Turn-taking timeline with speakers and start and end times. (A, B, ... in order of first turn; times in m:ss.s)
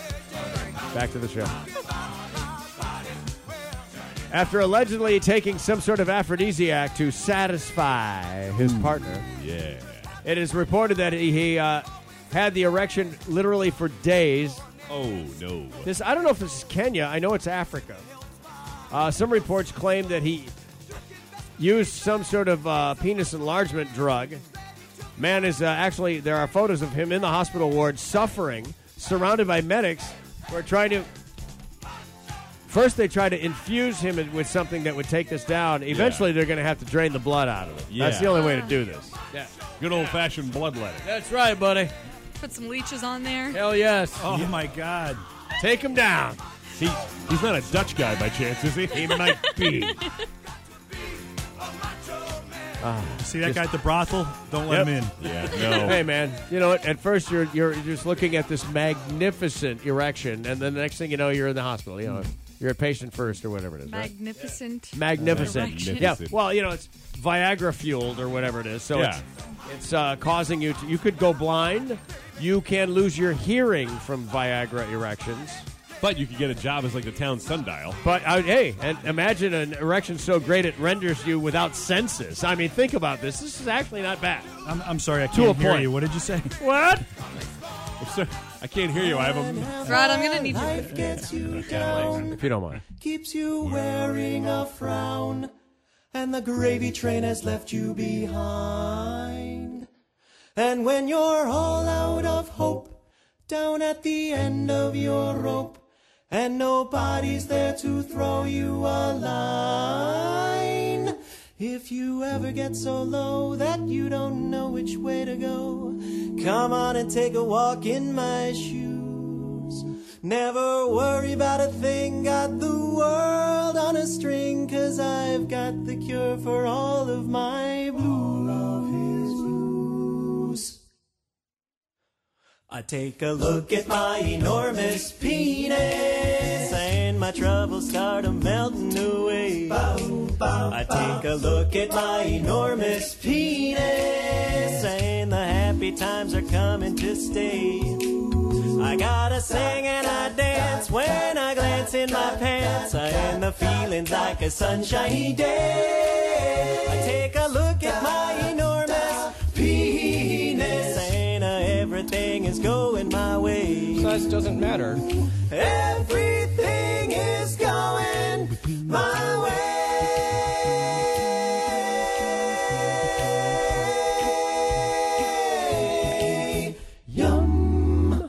0:00.9-0:01.5 A
0:04.3-0:09.2 A
0:08.7-0:10.1 B
0:10.2-0:14.6 A
0:14.9-0:15.9 B
0:15.8-0:18.0 A
0:18.9-0:20.5 A
0:21.6-0:24.4 A
0:25.2-0:31.1 A
0:32.6-0:40.2 A
0:35.9-0:36.3 B
0:37.9-0:38.4 B
0:38.3-0:38.8 C
0:39.8-0:41.1 B
0:41.0-0:41.9 A
0:42.4-0:43.6 C
0:43.5-0:44.5 A
0:44.2-0:45.2 D
0:45.6-0:46.4 A
0:46.8-0:49.1 B
0:48.9-0:50.0 A
0:49.1-0:50.2 C
0:52.8-0:53.6 A
0:53.2-0:55.1 D
0:54.7-0:55.0 A
0:55.2-0:56.0 B
0:55.5-1:15.6 A
1:03.8-1:06.1 C
1:05.1-1:06.4 B
1:08.9-1:09.2 B
1:16.0-1:18.0 B
1:18.0-1:24.5 A
1:24.6-1:26.6 D
1:25.3-1:25.9 A
1:26.6-1:27.0 A
1:28.0-1:29.9 B
1:28.9-1:32.4 E
1:29.8-1:31.0 C
1:30.6-1:31.3 D
1:31.7-1:32.8 A
1:32.9-1:35.5 E
1:36.1-1:39.8 E
1:40.6-2:10.8 E
2:12.7-2:44.3 E
2:44.0-2:45.0 A
2:45.3-2:50.5 E
2:55.9-2:56.4 A
2:57.1-2:57.7 A
2:57.6-2:58.0 E